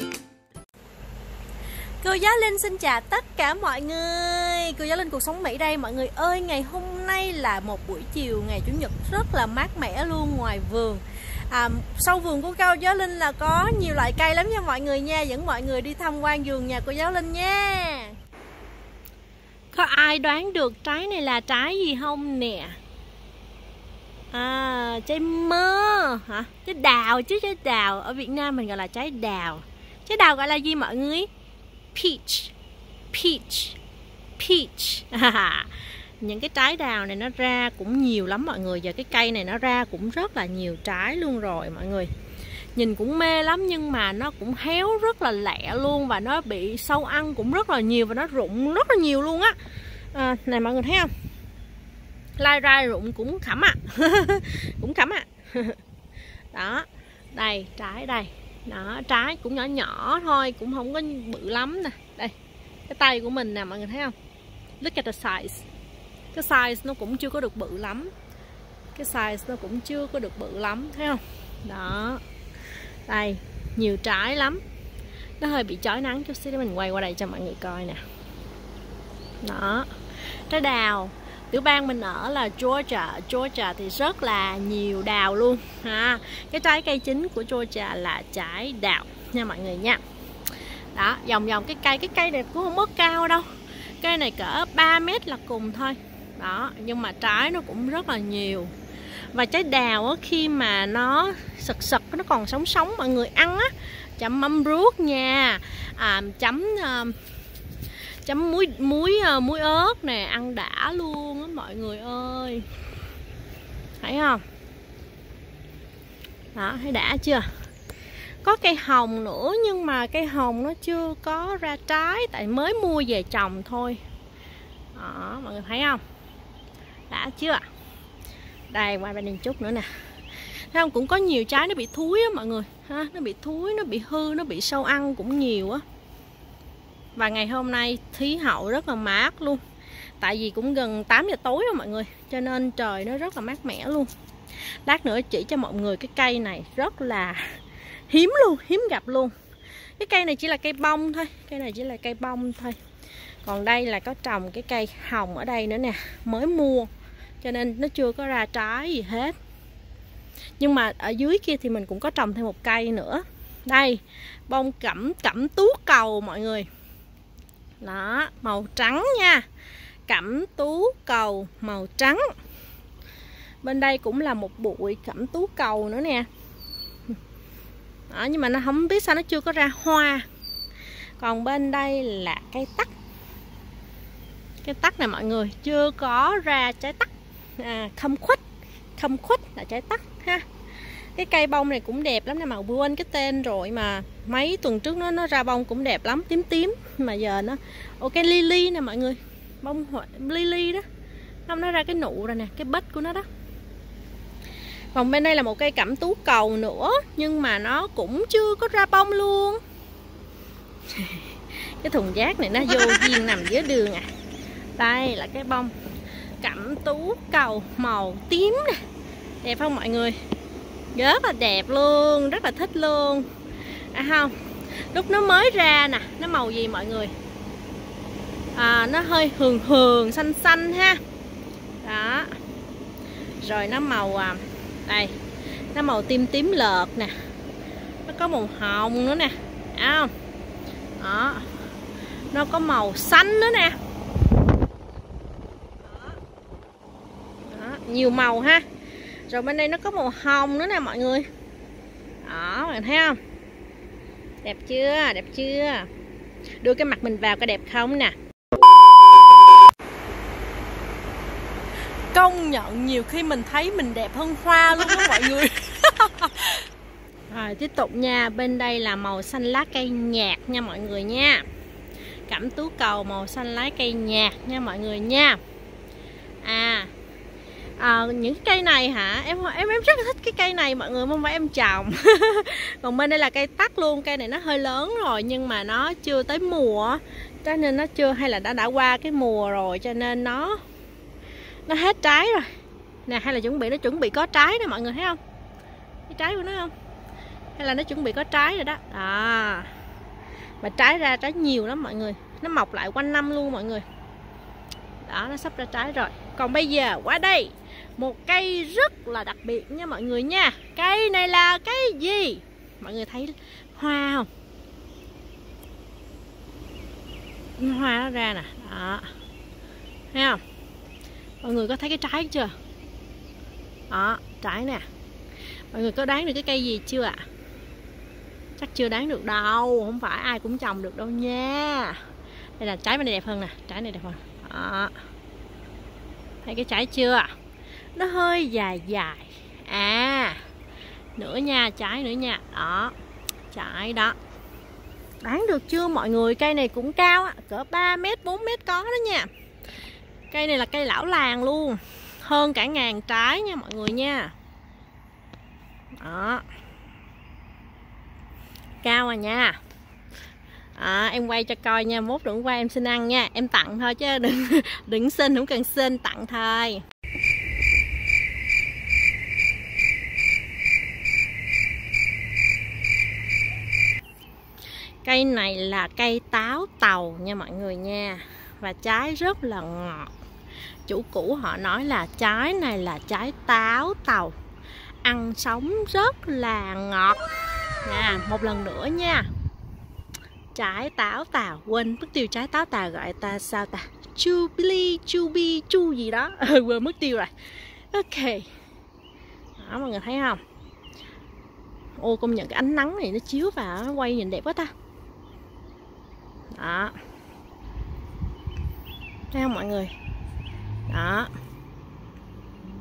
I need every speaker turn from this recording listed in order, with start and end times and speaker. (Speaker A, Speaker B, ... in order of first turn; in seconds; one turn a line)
Speaker A: 2.0-18.2
Speaker A: 19.7-22.8
Speaker A: 24.3-31.3
Speaker A: 31.9-32.5
Speaker A: 33.1-33.8
Speaker A: 34.4-42.1
Speaker A: 42.7-49.5
Speaker A: 50.1-51.1
Speaker A: 52.4-55.8
Speaker A: 56.5-62.3
Speaker A: 62.9-64.1
Speaker A: 64.8-65.7
Speaker A: 66.3-68.1
Speaker A: 68.9-72.2
Speaker A: 73.1-74.6
Speaker A: 75.4-78.0
Speaker A: 79.4-79.9
Speaker A: 80.5-90.0
Speaker A: 90.9-93.5
Speaker A: 94.0-98.7
Speaker A: 99.3-107.2
Speaker A: 108.2-112.7
Speaker A: 114.0-114.4
Speaker A: 116.5-117.5
Speaker A: 118.4-124.0
Speaker A: 124.9-126.0
Speaker A: 127.1-127.7
Speaker A: 128.7-129.9
Speaker A: 130.5-135.8
Speaker A: 137.2-139.6
Speaker A: 140.2-144.1
Speaker A: 144.8-149.3
Speaker A: 150.0-152.8
Speaker A: 153.4-156.9
Speaker A: 157.4-159.3
Speaker A: 160.6-166.7
Speaker A: 167.8-169.4
Speaker A: 170.1-172.3
Speaker A: 173.6-176.3
Speaker A: 178.1-180.2
Speaker A: 181.2-182.9
Speaker A: 184.6-188.4
Speaker A: 189.0-190.4
Speaker A: 191.2-200.8
Speaker A: 201.5-203.3
Speaker A: 204.9-209.6
Speaker A: 210.9-214.1
Speaker A: 214.8-215.7
Speaker A: 216.4-218.8
Speaker A: 219.4-220.2
Speaker A: 220.9-223.3
Speaker A: 223.9-224.3
Speaker A: 224.9-227.1
Speaker A: 228.5-231.0
Speaker A: 231.8-232.3
Speaker A: 233.4-235.1
Speaker A: 235.7-237.1
Speaker A: 238.1-240.1
Speaker A: 241.0-241.5
Speaker A: 242.3-243.8
Speaker A: 247.4-248.6
Speaker A: 249.3-251.3
Speaker A: 252.2-253.2
Speaker A: 254.4-255.9
Speaker A: 256.6-258.1
Speaker A: 262.1-266.6
Speaker A: 267.3-271.4
Speaker A: 272.3-275.4
Speaker A: 276.4-276.9
Speaker A: 277.8-290.6
Speaker A: 291.7-292.5
Speaker A: 293.1-295.2
Speaker A: 296.1-296.7
Speaker A: 297.6-299.7
Speaker A: 300.6-303.8
Speaker A: 305.0-314.3
Speaker A: 317.6-319.1
Speaker A: 320.1-320.4
Speaker A: 321.4-322.5
Speaker A: 323.9-324.9
Speaker A: 325.7-327.2
Speaker A: 328.6-332.0
Speaker A: 332.6-334.9
Speaker A: 336.4-337.3
Speaker A: 337.9-340.4
Speaker A: 341.1-342.9
Speaker A: 343.5-344.1
Speaker A: 345.2-349.3
Speaker A: 350.3-354.3
Speaker A: 356.0-356.4
Speaker A: 358.8-359.6
Speaker A: 360.8-366.8
Speaker A: 375.0-380.1
Speaker A: 380.9-384.3
Speaker A: 385.0-387.2
Speaker A: 387.8-389.3
Speaker A: 390.5-397.3
Speaker A: 397.9-398.5
Speaker A: 399.6-400.4
Speaker A: 402.0-404.7
Speaker A: 406.5-406.9
Speaker A: 409.3-409.9
Speaker A: 410.9-411.3